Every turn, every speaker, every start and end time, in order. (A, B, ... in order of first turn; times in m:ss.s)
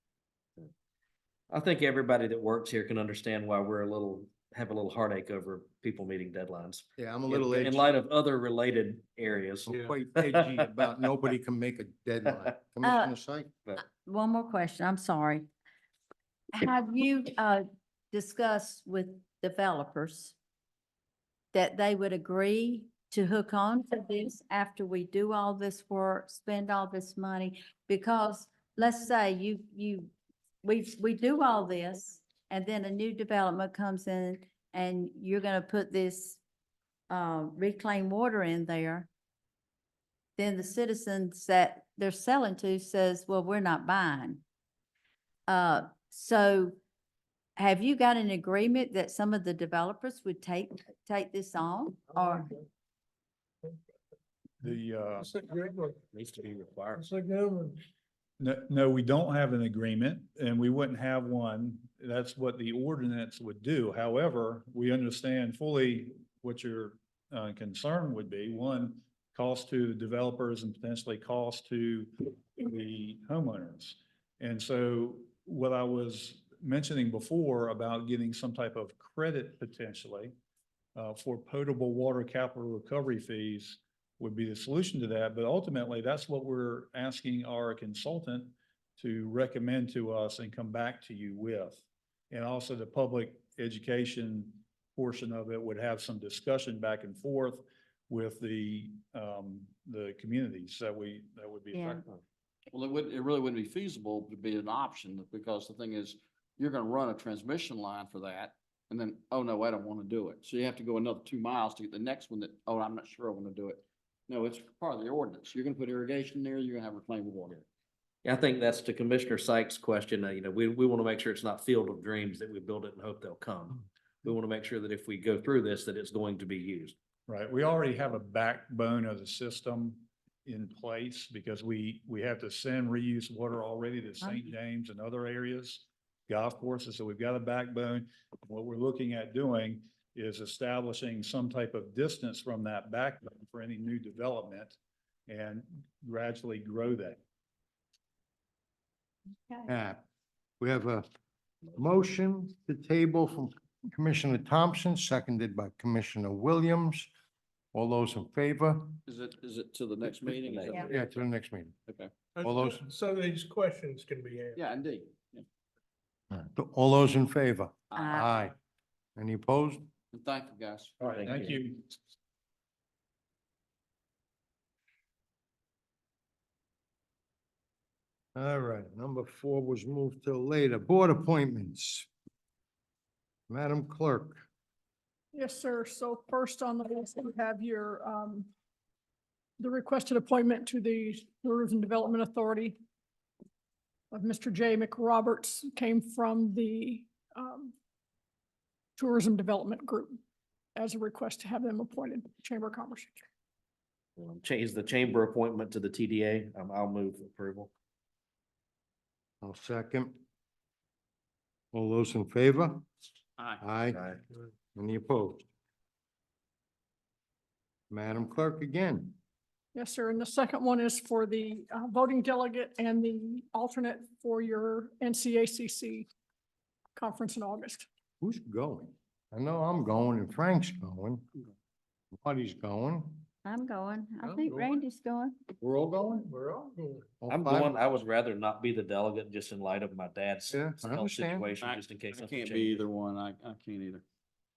0:01.5-0:10.9 A
0:07.0-0:07.9 B
0:09.7-0:13.5 B
0:09.7-0:10.0 C
0:12.8-0:13.1 D
0:13.8-0:15.5 D
0:16.6-0:20.4 D
0:21.5-0:36.4 D
0:37.1-0:39.1 D
0:40.4-0:44.4 D
0:45.5-0:46.8 D
0:47.6-0:52.5 D
0:52.2-0:52.6 C
0:54.6-0:55.3 E
0:55.2-0:56.0 C
0:56.1-0:57.0 A
0:57.0-0:57.8 C
0:58.4-1:20.3 E
1:21.0-1:42.2 E
1:41.7-1:42.0 D
1:42.7-1:57.6 F
1:58.2-2:06.9 A
2:07.3-2:24.8 E
2:14.2-2:14.5 D
2:25.3-2:27.2 E
2:29.7-2:30.0 B
2:30.6-2:31.0 B
2:31.7-2:37.1 B
2:37.7-2:39.0 B
2:39.0-2:41.1 F
2:40.3-2:40.6 A
2:40.7-2:41.7 B
2:41.9-2:42.1 F
2:42.3-2:44.6 C
2:42.4-2:42.8 B
2:44.5-2:45.4 F
2:46.3-2:48.5 B
2:48.0-2:48.4 D
2:49.2-2:49.9 B
2:50.1-2:51.6 F
2:51.0-2:51.9 E
2:58.3-3:02.1 B
3:03.5-3:04.4 B
3:05.3-3:08.5 G
3:09.6-3:12.8 G
3:14.1-3:17.7 G
3:19.0-3:20.2 G
3:20.8-3:23.2 G
3:24.2-3:27.7 A
3:29.4-3:30.2 B
3:31.7-3:32.8 B
3:33.6-3:34.0 B
3:33.9-3:34.2 A
3:34.7-3:35.4 B
3:37.9-3:39.2 B
3:39.7-3:46.1 G
3:47.0-3:47.8 G
3:48.2-3:51.2 B
3:52.2-3:53.3 B
3:53.4-3:55.4 D
3:54.2-3:54.8 C
3:55.6-3:56.3 B
3:56.2-3:57.1 C
3:57.2-3:57.8 B
3:57.3-4:02.8 A
4:00.5-4:01.4 B
4:01.6-4:04.0 F